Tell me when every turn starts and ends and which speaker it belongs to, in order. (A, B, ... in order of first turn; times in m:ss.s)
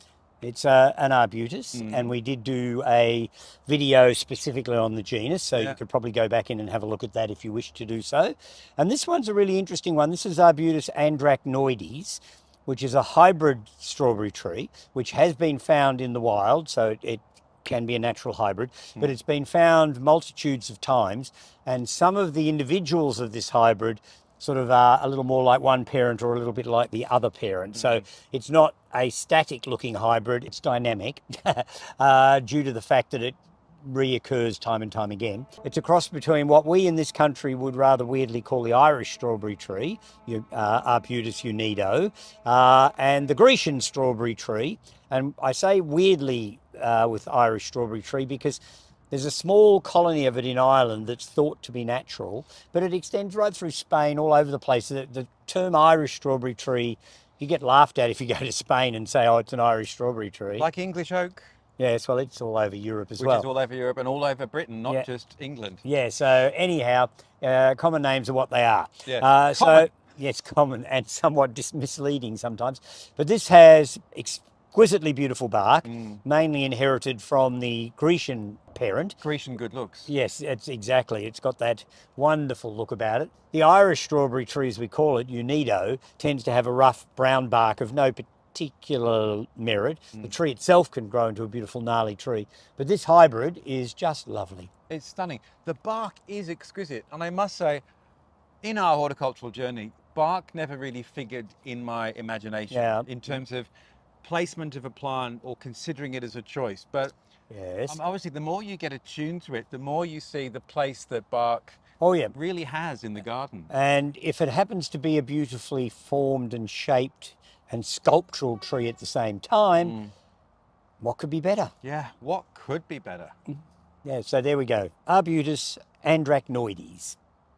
0:00.4-1:00.7 A
0:01.7-0:02.1 B
0:27.8-0:28.0 B
1:00.5-1:01.4 B
1:01.8-1:03.5 A
1:03.2-1:05.8 B
1:05.8-1:19.2 A
1:09.0-1:09.9 B
1:15.8-1:16.2 B
1:19.2-1:20.1 B
1:20.1-1:34.7 A
1:34.9-1:37.8 B
1:38.6-1:43.7 B
1:42.7-1:43.1 A
1:44.2-1:47.1 B
1:47.5-1:48.0 A
1:47.9-1:51.8 B
1:52.0-1:52.3 A
1:52.3-1:53.7 B
1:53.7-2:00.0 A
1:59.8-2:00.1 B
2:01.0-2:01.7 A
2:01.8-2:03.4 B
2:04.0-2:07.2 A